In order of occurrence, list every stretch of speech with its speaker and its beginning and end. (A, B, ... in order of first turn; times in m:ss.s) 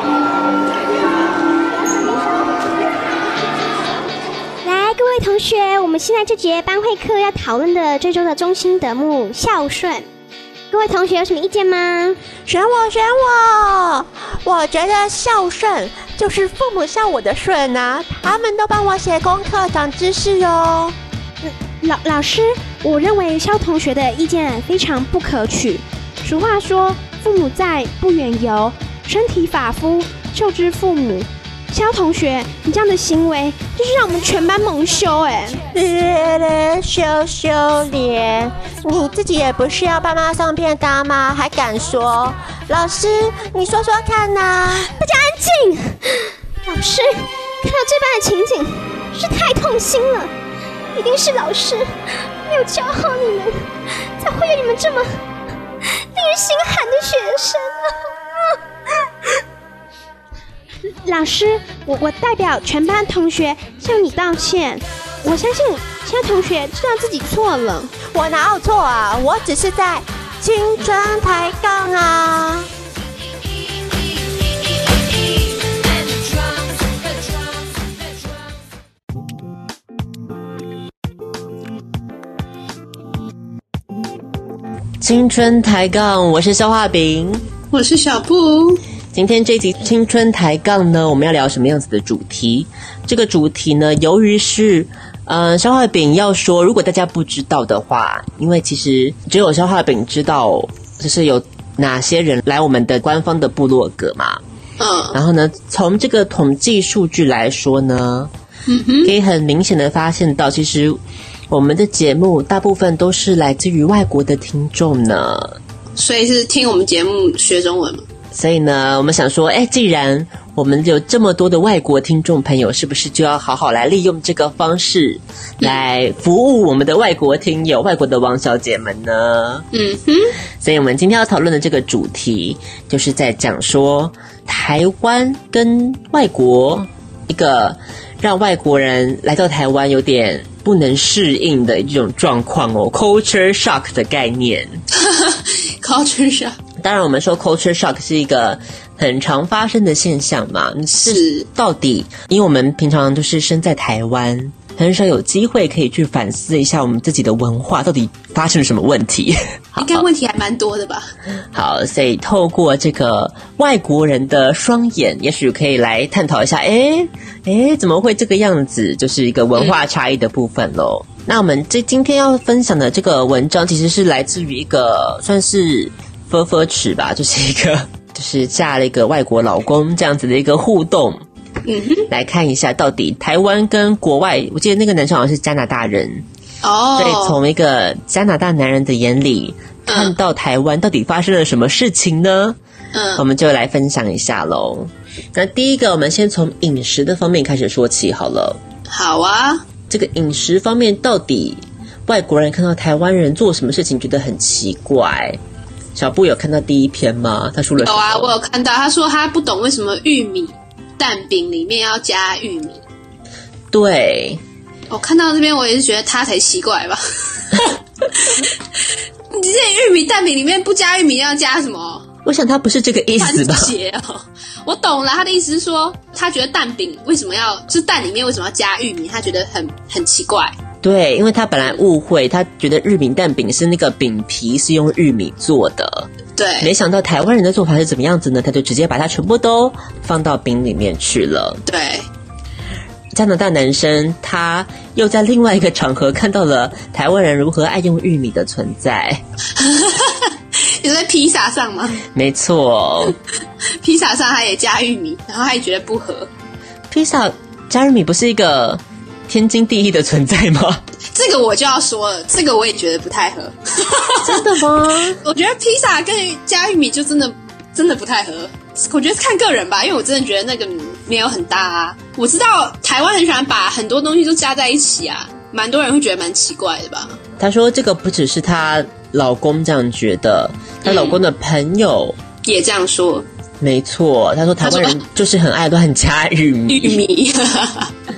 0:04.6-0:10.1 A
0:10.7-0:12.2 A
0:12.5-0:21.0 B
0:21.4-0:35.6 A
0:35.7-0:44.9 B
0:44.9-0:50.3 A
0:50.9-0:55.2 A
0:56.0-0:58.5 A
1:01.0-1:07.9 A
1:08.0-1:12.7 B
1:25.0-1:27.4 C
1:27.7-1:28.8 D
1:29.1-1:44.4 C
1:44.8-1:45.2 D
1:45.1-1:48.3 C
1:48.7-1:49.1 D
1:49.0-1:55.6 C
1:56.0-1:58.1 D
1:58.3-2:09.6 C
2:09.7-2:10.3 D
2:10.6-2:24.8 C
2:24.9-2:26.6 D
2:26.8-2:40.0 C
2:30.9-2:31.5 D
2:39.8-2:41.1 D
2:41.5-3:01.2 C
3:01.6-3:02.1 D
3:02.1-3:06.2 C
3:06.6-3:07.4 D
3:07.0-3:12.6 C
3:09.9-3:10.1 D
3:12.9-3:13.2 D
3:13.2-3:18.6 C
3:18.9-3:19.6 D
3:19.9-3:25.4 C
3:25.9-3:28.3 C
3:27.8-3:32.8 D
3:33.7-3:34.4 C
3:34.9-3:38.5 D
3:39.3-3:42.1 D
3:42.2-3:43.7 C
3:43.2-3:50.5 D
3:50.8-3:56.1 C
3:56.4-3:56.7 D
3:56.6-4:01.6 C
4:01.6-4:02.1 D
4:03.1-4:09.2 C
4:09.6-4:12.0 D
4:12.1-4:13.2 C
4:13.8-4:16.3 D
4:16.9-4:20.8 C
4:21.1-4:24.5 D
4:24.2-4:25.2 C
4:25.2-4:37.2 D
4:37.4-4:42.2 C
4:40.8-4:41.2 D
4:42.4-4:43.2 D
4:43.6-4:47.0 C
4:44.6-4:45.0 D
4:46.7-4:47.9 D